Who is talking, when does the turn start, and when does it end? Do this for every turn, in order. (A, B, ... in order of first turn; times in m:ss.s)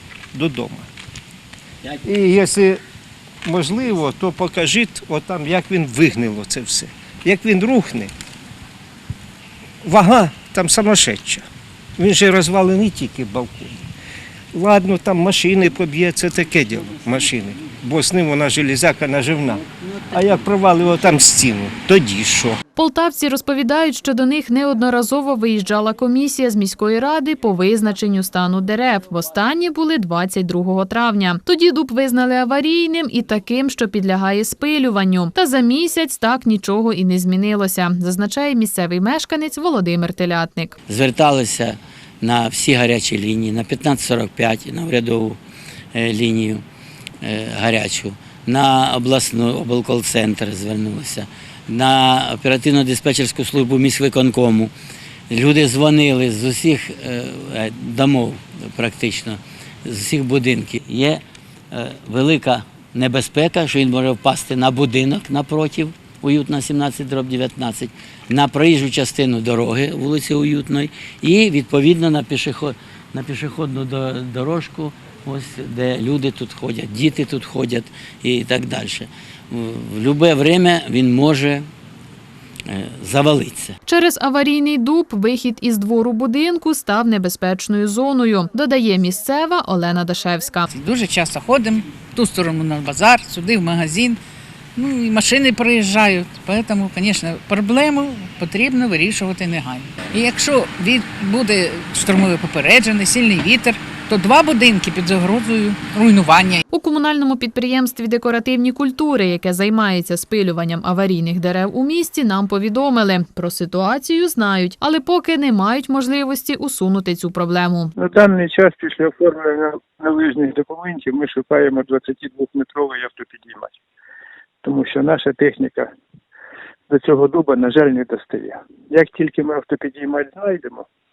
0:00.3-0:00.9 A
0:02.0-0:02.8 A
0:03.4-0:08.1 A
0:09.8-0:11.4 A
0:12.0-0:13.8 A
0:14.5-0:22.6 A
0:22.8-0:40.8 B
0:40.9-0:45.4 C
0:45.9-0:46.6 C
0:47.2-0:54.7 C
0:55.3-1:21.7 C
1:22.7-1:23.7 C
1:23.8-1:30.6 B
1:30.7-1:34.2 D
1:34.8-1:46.6 D
1:46.7-1:57.9 B
1:58.0-2:03.7 E
2:04.6-2:05.9 E
2:06.9-2:10.8 E